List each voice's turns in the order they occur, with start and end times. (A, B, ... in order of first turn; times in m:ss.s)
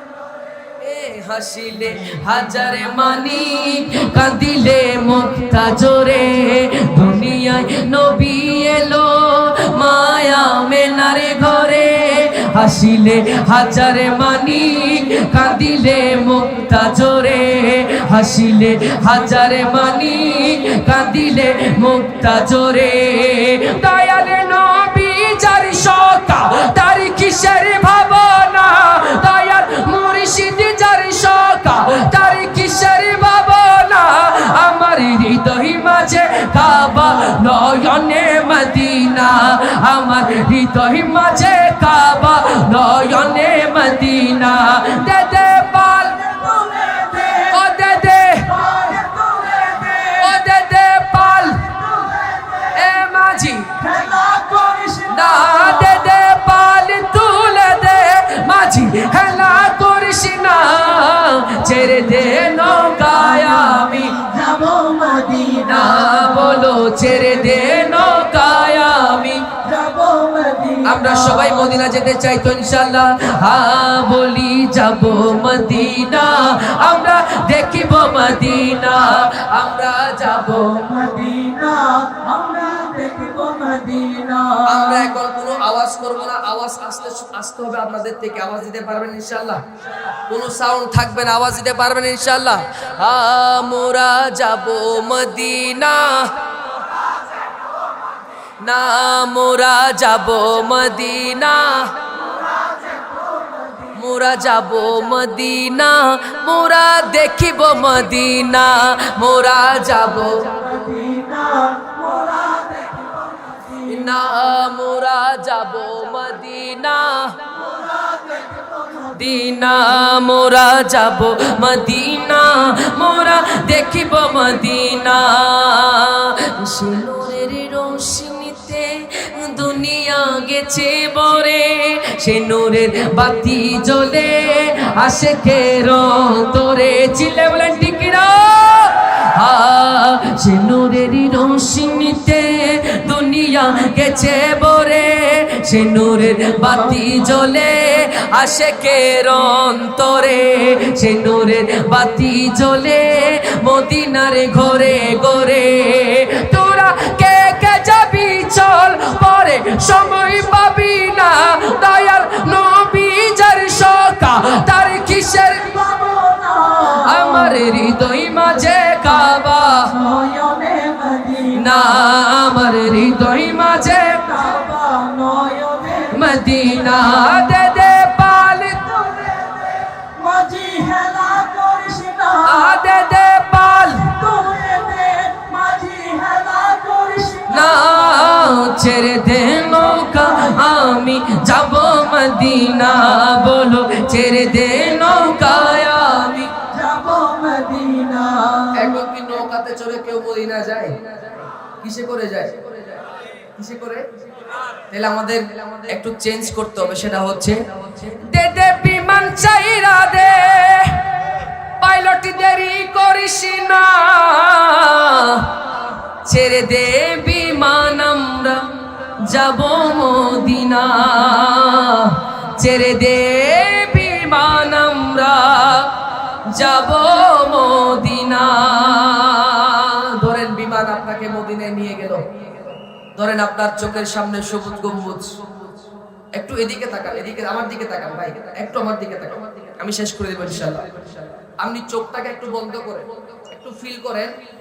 0:00.8-0:46.2 A
0:46.1-0:47.6 B
0:47.5-0:48.5 A
0:48.4-0:50.4 B
0:50.2-0:51.7 A
0:51.9-0:52.8 B
0:52.7-0:53.7 A
0:53.8-0:56.1 B
0:55.1-1:04.2 A
1:03.1-1:06.6 B
1:05.6-1:09.4 A
1:09.6-1:11.7 B
1:10.8-1:20.9 A
1:20.6-1:25.1 B
1:24.7-1:29.6 A
1:30.1-1:36.4 A
1:38.6-1:41.9 A
1:42.6-1:43.9 B
1:43.9-1:50.8 A
1:50.4-1:54.1 B
1:53.9-1:57.4 A
1:57.5-1:59.2 B
1:59.1-2:45.8 A
2:45.6-2:47.6 B
2:46.9-2:49.9 A
2:49.9-2:51.7 B
2:51.5-2:54.5 A
2:54.2-2:56.2 B
2:56.1-2:59.4 A
2:59.2-3:02.8 B
3:02.4-3:04.2 A
3:04.1-3:07.9 B
3:07.5-3:16.5 A
3:10.2-3:10.5 B
3:16.7-3:18.9 B
3:18.8-3:21.0 A
3:21.8-3:23.0 A
3:23.6-3:24.1 A
3:24.9-3:31.0 A
3:31.8-3:35.6 A
3:36.2-3:55.4 A
3:56.3-4:00.9 A
4:01.6-4:04.4 A